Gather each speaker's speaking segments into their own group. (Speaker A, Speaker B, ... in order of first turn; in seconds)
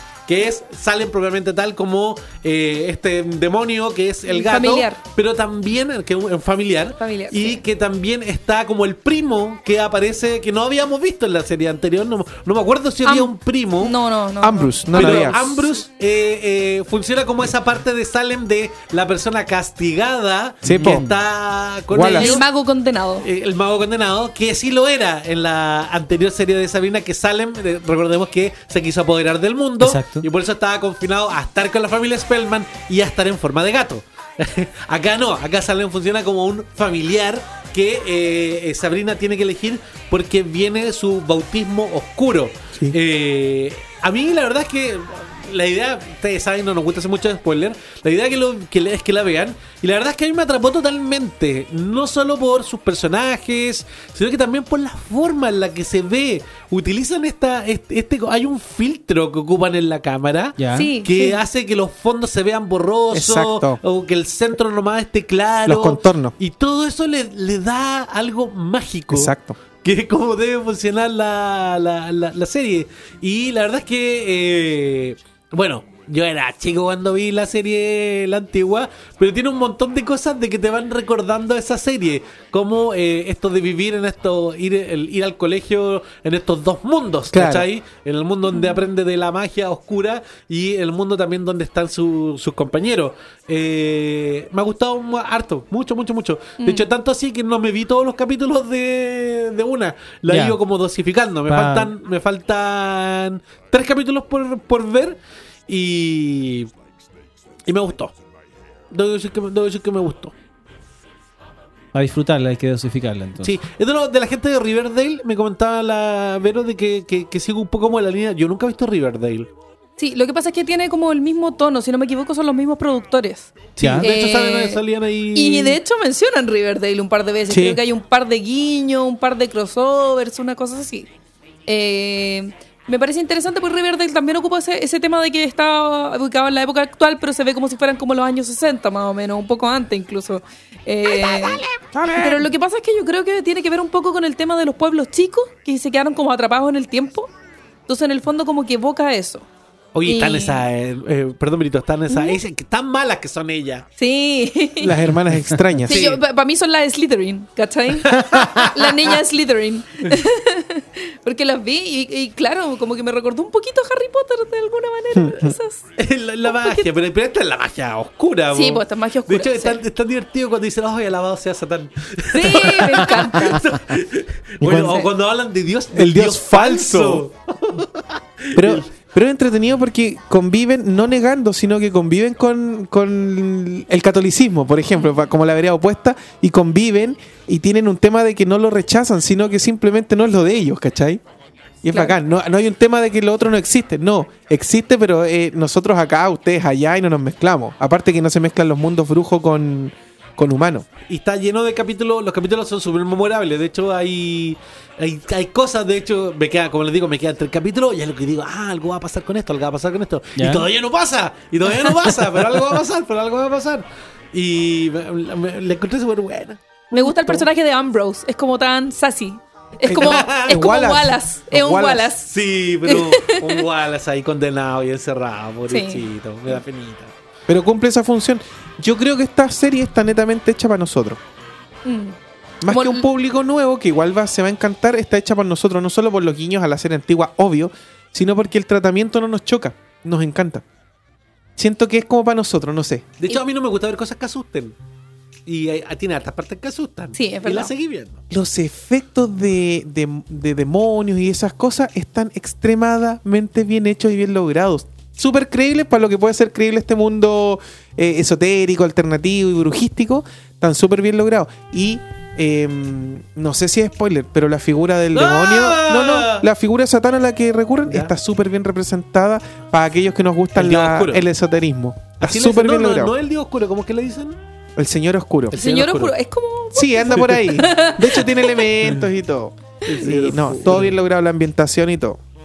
Speaker A: 0.3-13.9, 14.9-22.4, 23.2-106.7, 107.7-108.1, 108.9-110.3, 113.4-119.5, 123.8-125.8, 149.9-153.8, 155.9-156.2, 158.1-158.7, 166.0-178.9, 201.1-217.4, 219.9-220.6, 222.3-227.1, 243.2-244.8, 245.4-248.2, 265.1-266.5, 267.9-268.1, 270.6-271.2, 272.2-274.4, 275.5-276.1, 279.9-280.9
Speaker B: 4.2-5.0, 7.0-7.6, 13.0-15.6, 22.1-23.2, 60.7-61.4, 88.5-88.8, 120.0-124.8, 125.3-131.1, 131.7-141.6, 142.2-147.3, 147.9-149.5, 150.0-150.6, 152.1-152.4, 154.0-154.9, 155.8-165.8, 166.4-166.8, 168.5-169.8, 172.3-173.6, 216.9-222.3, 222.8-223.6, 225.7-226.6, 231.8-232.2, 232.7-233.1, 247.2-247.7, 275.5-278.7
Speaker C: 14.4-15.4, 20.6-21.1, 21.9-22.4, 63.1-63.8, 65.7-66.3, 69.1-69.6, 87.3-87.7, 127.5-127.8, 141.9-142.4, 154.8-156.1, 165.1-165.5, 174.6-175.1, 175.9-177.2, 178.5-191.2, 191.8-200.9, 219.8-222.1, 227.5-231.2, 232.6-240.6, 241.6-243.1, 248.3-273.1, 274.8-275.6, 276.7-282.2
Speaker D: 20.6-21.1, 29.8-30.3, 60.6-60.9, 100.3-100.6, 101.5-101.9, 111.9-113.5, 123.8-124.1, 210.4-210.7